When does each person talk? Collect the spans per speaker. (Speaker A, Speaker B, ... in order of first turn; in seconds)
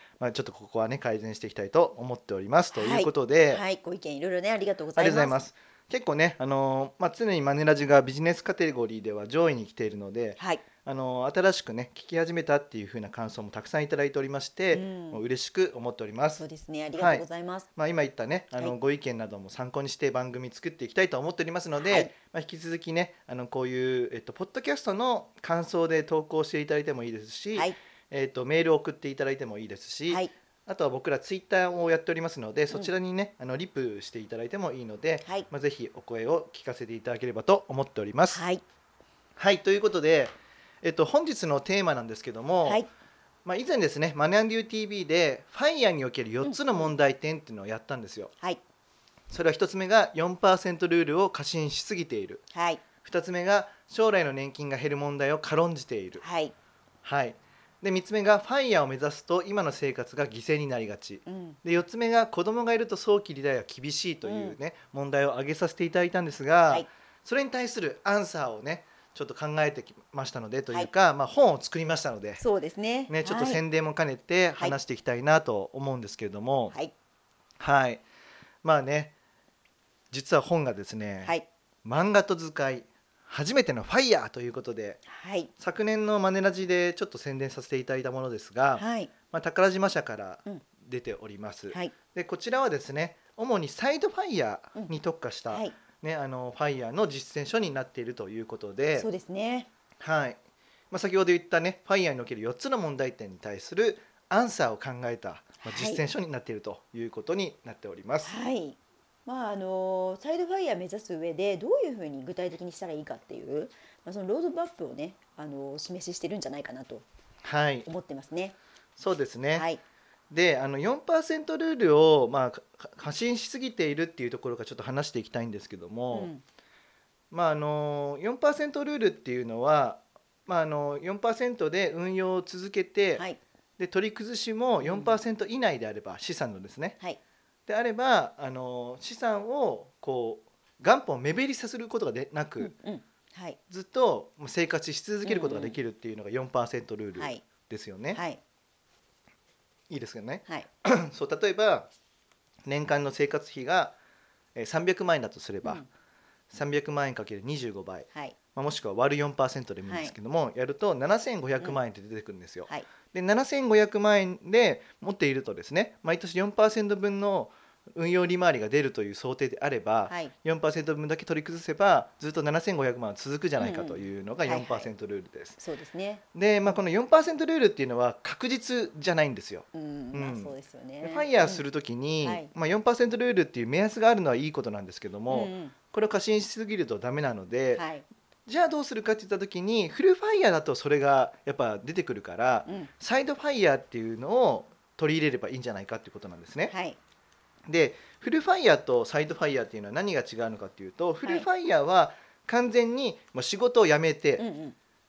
Speaker A: 0.2-3.6, 5.0-16.4, 17.0-17.2, 17.8-38.4, 39.4-42.8, 43.5-48.3, 49.3-52.4, 53.0-56.2, 57.0-72.4, 73.1-76.8, 77.6-78.0, 78.6-79.1, 80.1-85.0, 85.6-99.1, 100.0-100.4, 100.9-108.3, 117.4-117.9, 119.0-119.7, 120.3-126.3, 127.3-133.2, 133.8-137.0, 137.7-142.7, 143.7-148.2, 149.9-151.9, 152.7-154.0, 154.6-155.8, 156.5-175.6, 176.3-187.8, 188.5-196.7, 197.7-204.4
Speaker B: 2.8-5.4, 10.4-10.6, 14.7-15.2, 16.4-17.7, 21.8-22.1, 38.3-38.6, 46.4-46.9, 52.5-52.8, 56.2-56.5, 61.3-61.6, 64.2-64.5, 72.4-73.6, 85.1-85.5, 88.8-89.1, 95.5-95.8, 99.0-99.7, 105.6-106.0, 108.2-117.0, 117.8-118.6, 119.5-119.8, 126.1-126.4, 134.8-135.2, 142.6-143.6, 145.2-145.8, 147.2-147.4, 148.1-148.4, 159.9-160.1, 170.1-170.3, 173.6-174.9, 175.6-176.8, 179.7-181.6, 182.2-182.5, 185.3-185.7, 187.8-188.1, 192.7-192.9, 196.7-197.0, 204.4-204.8